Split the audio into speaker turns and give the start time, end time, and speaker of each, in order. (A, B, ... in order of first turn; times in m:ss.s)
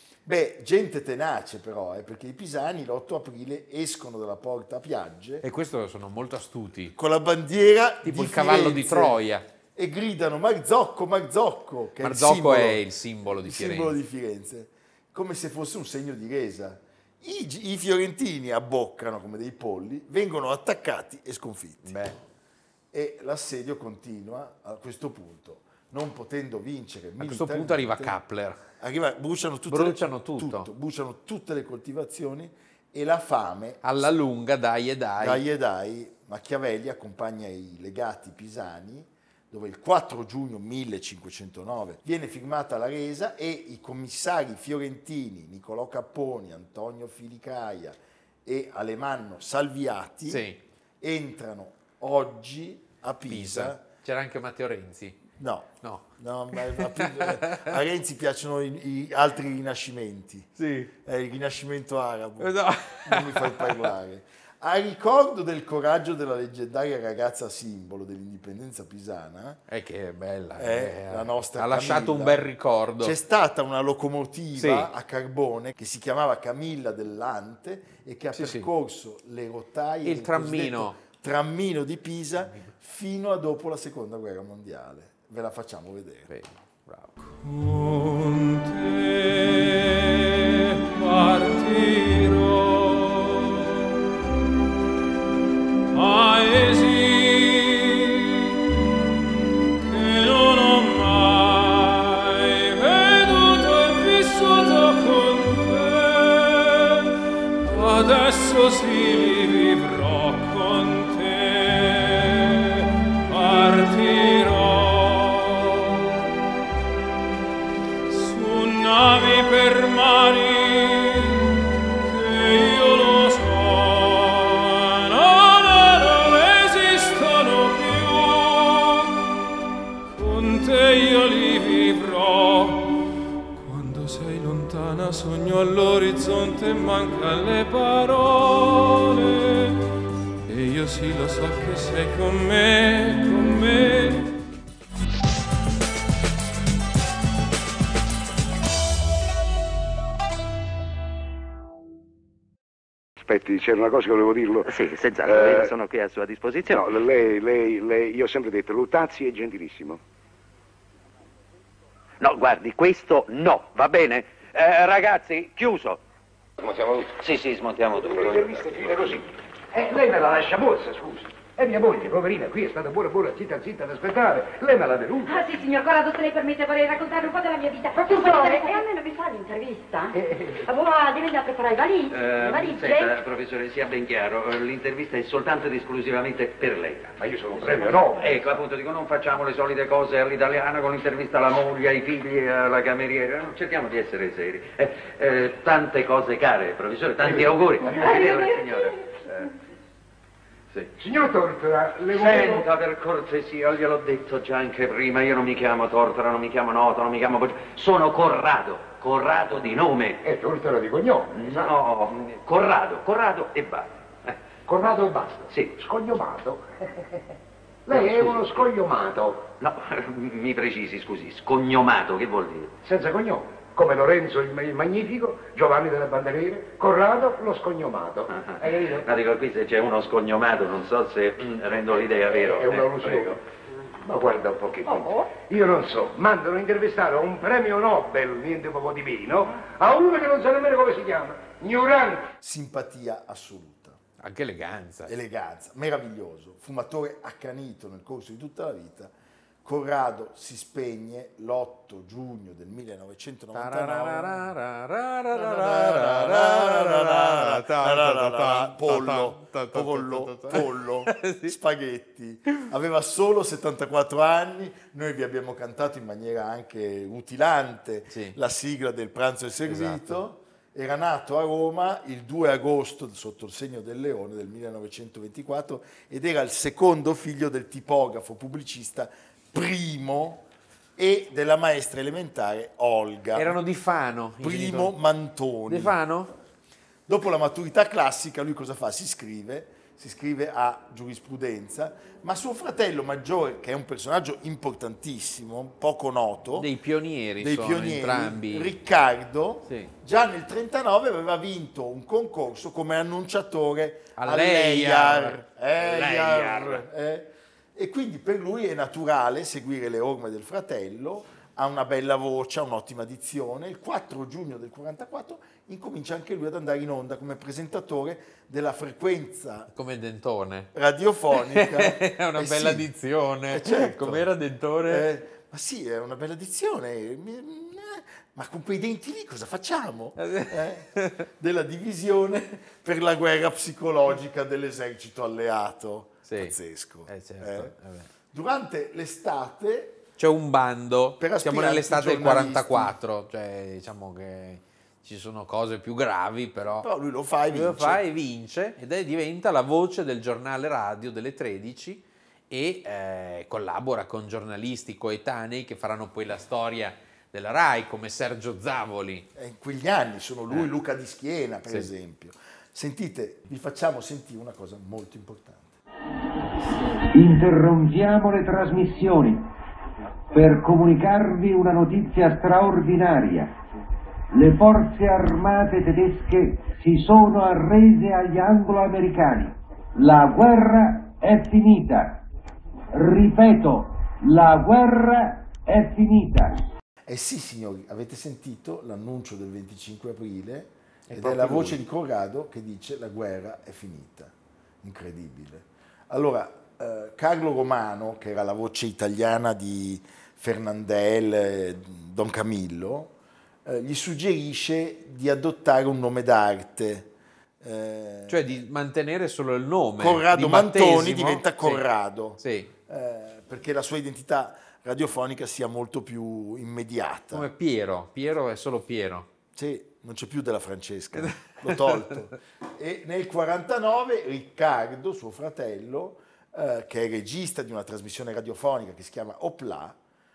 0:00.2-0:05.4 A
0:05.4-0:06.9 B
0:06.9-0:09.2 A
0:08.0-0:09.4 B
0:09.7-0:12.8 A
0:12.0-0:14.0 B
0:13.4-0:22.0 A
0:21.8-0:22.2 B
0:22.9-0:28.2 A
0:27.2-0:28.6 B
0:28.8-0:33.8 A
0:29.7-0:30.7 B
0:33.8-0:35.4 B
0:35.2-0:50.4 A
0:50.3-0:50.6 B
0:51.0-0:53.8 A
0:53.3-0:55.2 B
0:55.4-1:09.6 A
0:55.8-0:57.8 B
1:00.6-1:00.9 B
1:02.4-1:03.9 B
1:09.7-1:13.2 B
1:10.6-1:12.4 A
1:13.0-1:26.3 A
1:14.6-1:14.9 B
1:18.3-1:18.7 B
1:20.0-1:21.0 B
1:22.4-1:22.7 B
1:26.3-1:27.1 B
1:27.3-1:33.7 C
1:35.9-1:38.5 C
1:39.8-1:47.0 C
1:47.6-1:56.0 C
1:58.1-2:09.1 C
2:10.1-2:19.8 C
2:20.4-2:24.3 C
2:33.2-2:35.7 D
2:34.6-2:36.9 E
2:36.6-2:40.0 D
2:42.2-2:46.0 E
2:47.0-2:49.0 E
2:48.1-2:49.2 F
2:49.7-2:55.4 F
2:55.2-3:03.2 G
2:58.2-2:58.7 F
3:00.1-3:00.6 F
3:02.1-3:19.5 E
3:07.2-3:08.6 F
3:17.2-3:18.5 F
3:21.0-3:22.6 F
3:22.1-3:30.2 E
3:30.2-3:31.7 F
3:31.3-3:34.3 E
3:34.7-3:37.2 F
3:37.9-3:39.4 F
3:37.9-3:38.4 E
3:39.6-3:42.7 E
3:42.8-3:49.0 F
3:48.3-3:53.4 E
3:52.3-3:53.4 F
3:54.0-4:02.3 F
3:54.9-3:55.1 G
4:02.4-4:04.0 A
4:04.2-4:05.1 B
4:05.0-4:09.1 A
4:09.6-4:14.5 A
4:13.5-4:21.5 B
4:15.3-4:43.6 A
4:28.1-4:28.4 B
4:29.7-4:30.2 B
4:43.3-4:44.9 B
4:44.4-4:46.0 A
4:45.7-4:46.3 B
4:47.1-4:56.7 A
4:56.6-4:58.7 B
4:57.4-5:19.7 A
5:04.2-5:06.8 B
5:19.7-5:20.7 B
5:20.7-5:22.9 A
5:21.3-5:25.1 B
5:23.5-5:24.3 A
5:24.8-5:37.7 A
5:30.2-5:31.2 B
5:36.3-5:36.5 B
5:37.1-5:38.1 B
5:38.3-5:40.0 A
5:40.2-5:46.9 B
5:41.2-5:42.9 A
5:46.8-5:48.0 A
5:47.5-5:59.3 B
5:59.3-6:05.8 A
6:07.1-6:09.4 H
6:10.3-6:13.5 H
6:14.3-6:22.2 H
6:22.9-6:26.6 H
6:27.0-6:43.1 A
6:31.1-6:31.8 B
6:43.6-6:48.4 A
6:48.3-6:51.8 B
6:50.0-6:57.5 A
6:52.4-6:52.7 B
6:57.3-6:59.3 B
6:59.5-7:10.0 A
7:01.2-7:02.2 B